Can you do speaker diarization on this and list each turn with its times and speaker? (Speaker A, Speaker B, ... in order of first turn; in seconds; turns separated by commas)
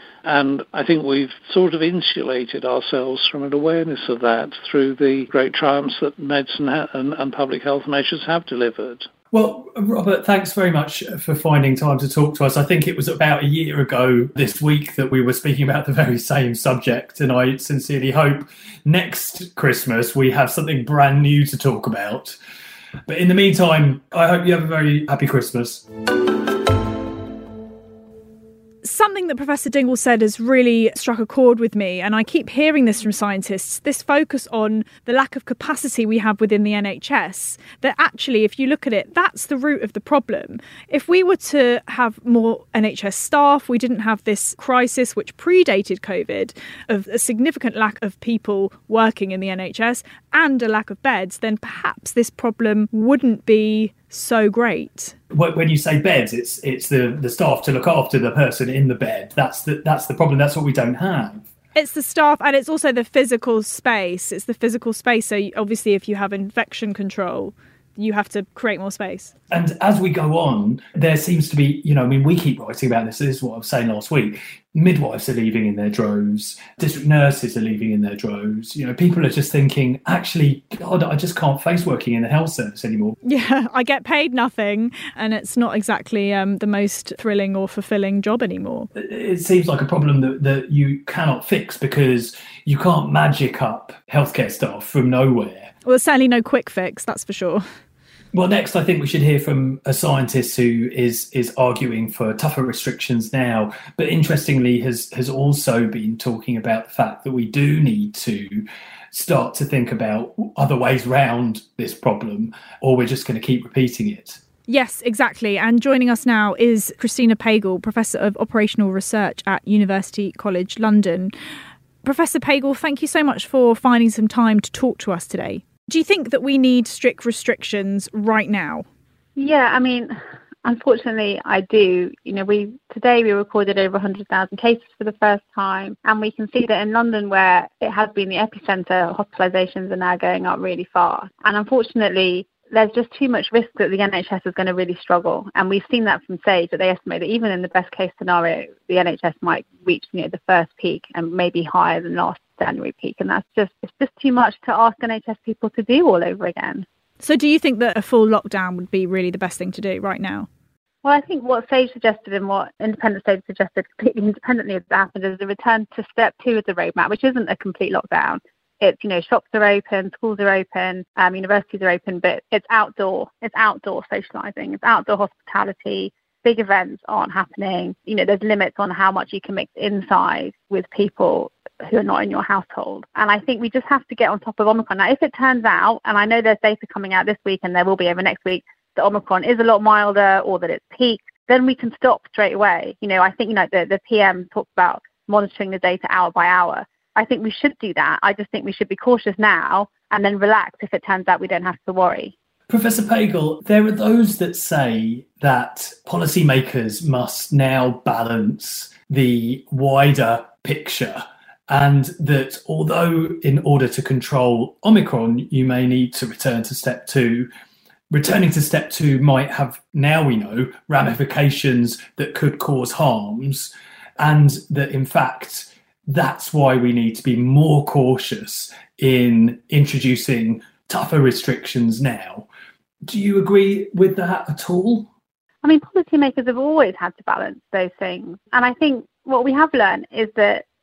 Speaker A: 0.2-9.1, Speaker B: 9.3-22.4, Speaker B: 23.1-25.9, Speaker C: 28.8-55.1, Speaker B: 55.3-61.5, Speaker C: 61.7-69.3, Speaker B: 69.5-83.1, Speaker C: 83.2-88.9, Speaker B: 88.9-95.7, Speaker C: 95.8-97.6, Speaker B: 98.3-114.4, Speaker C: 114.7-121.3, Speaker C: 122.0-128.8, Speaker D: 129.3-156.8, Speaker C: 157.2-160.5, Speaker D: 161.0-202.3, Speaker B: 202.7-217.5, Speaker B: 218.1-232.5, Speaker B: 233.0-235.1, Speaker D: 235.6-240.6